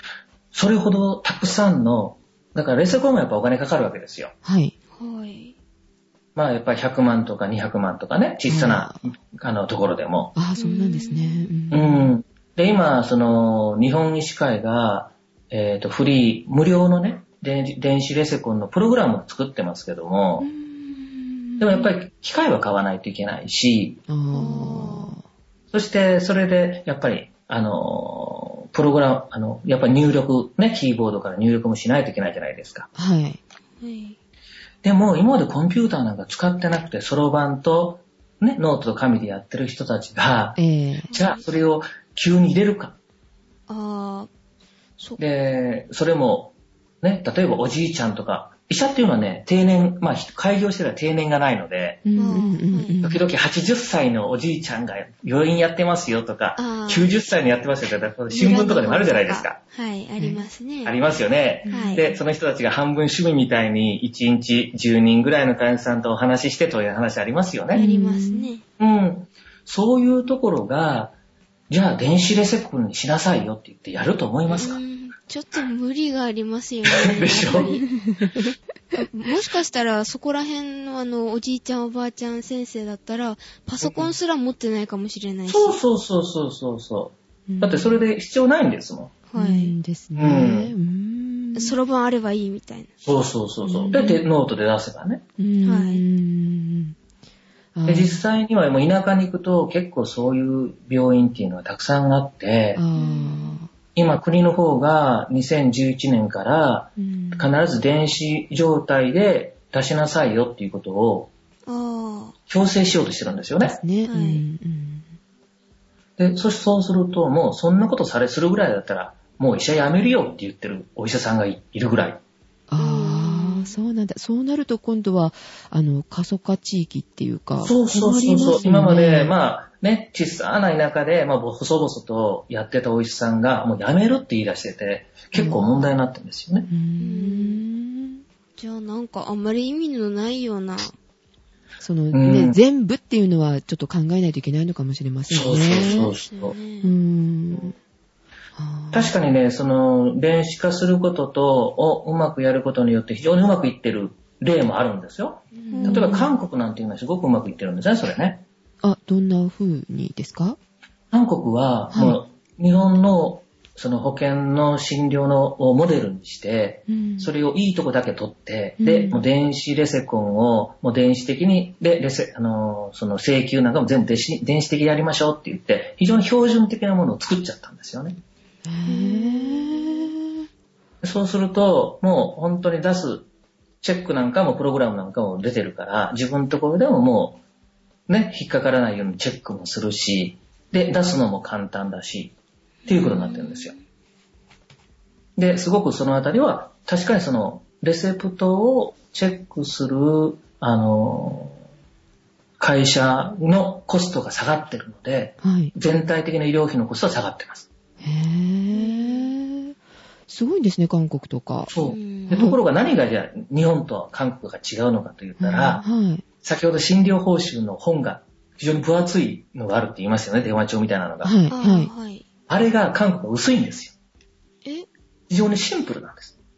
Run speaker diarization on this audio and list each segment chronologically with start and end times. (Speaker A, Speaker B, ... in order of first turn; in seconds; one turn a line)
Speaker A: 0.5-4.3
Speaker B: 4.4-4.7
Speaker C: 5.0-5.5
Speaker A: 6.3-10.3
Speaker B: 8.5-9.0
Speaker B: 10.3-12.1
Speaker C: 10.6-11.5
Speaker A: 11.7-20.5
Speaker B: 20.4-21.9
Speaker A: 21.6-24.0
Speaker B: 24.1-25.2
Speaker C: 24.3-25.1
Speaker A: 25.7-32.9
Speaker B: 32.9-33.4
Speaker C: 33.8-34.2
Speaker A: 34.8-40.6
Speaker B: 40.6-41.1
Speaker C: 41.1-41.5
Speaker A: 41.1-43.0
Speaker C: 43.7-44.3
Speaker A: 45.2-52.0
Speaker B: 52.0-53.2
Speaker C: 52.1-52.9
Speaker A: 53.0-59.6
Speaker C: 56.6-57.1
Speaker C: 58.3-61.0
Speaker B: 60.2-60.5
Speaker A: 60.8-67.8
Speaker B: 61.6-62.0
Speaker C: 61.7-62.1
Speaker B: 67.7-68.5
Speaker C: 67.7-68.6
Speaker A: 68.8-71.1
Speaker A: 71.7-74.8
Speaker C: 74.5-77.9
Speaker A: 76.9-77.7
Speaker B: 77.6-78.4
Speaker C: 79.0-85.8
Speaker A: 83.8-84.1
Speaker A: 85.5-89.1
Speaker B: 87.5-88.0
Speaker C: 89.3-89.7
Speaker B: 89.3-91.8
Speaker A: 90.2-90.7
Speaker C: 91.5-92.9
Speaker A: 93.0-95.2
Speaker B: 93.7-94.2
Speaker B: 95.4-97.0
Speaker C: 95.6-96.0
Speaker B: 97.7-98.2
Speaker A: 97.9-102.8
Speaker B: 102.8-103.7
Speaker C: 102.9-103.6
Speaker A: 103.9-111.3
Speaker B: 107.0-107.5
Speaker C: 111.7-112.3
Speaker A: 112.5-113.8
Speaker B: 113.6-115.1
Speaker C: 114.0-114.4
Speaker A: 116.2-122.2
Speaker B: 122.7-129.3
Speaker C: 122.8-123.7
Speaker A: 127.6-136.7
Speaker B: 135.3-135.7
Speaker B: 136.7-138.2
Speaker C: 137.0-137.6
Speaker C: 138.6-140.9
Speaker B: 141.8-146.1
Speaker A: 142.1-142.6
Speaker A: 145.3-146.5
Speaker C: 145.7-146.9
Speaker B: 146.8-147.7
Speaker B: 148.6-149.1
Speaker A: 148.9-158.4
Speaker C: 155.6-156.2
Speaker B: 155.7-156.3
Speaker B: 158.8-160.6
Speaker A: 161.1-178.2
Speaker B: 161.9-162.2
Speaker B: 166.9-167.3
Speaker B: 168.8-169.2
Speaker B: 178.7-180.4
Speaker C: 178.8-180.1
Speaker A: 181.0-183.3
Speaker A: 183.8-187.4
Speaker A: 188.1-192.3
Speaker C: 192.8-193.8
Speaker A: 192.9-193.7
Speaker A: 195.3-201.6
Speaker A: 202.6-207.7
Speaker B: 205.4-205.7
Speaker B: 208.0-209.7
Speaker C: 208.7-209.3
Speaker B: 210.3-211.7
Speaker A: 211.7-215.8
Speaker C: 211.8-212.5
Speaker B: 212.3-212.6
Speaker B: 215.4-216.2
Speaker A: 216.4-221.3
Speaker B: 221.2-221.9
Speaker C: 221.5-222.2
Speaker A: 222.5-223.9
Speaker A: 225.3-226.3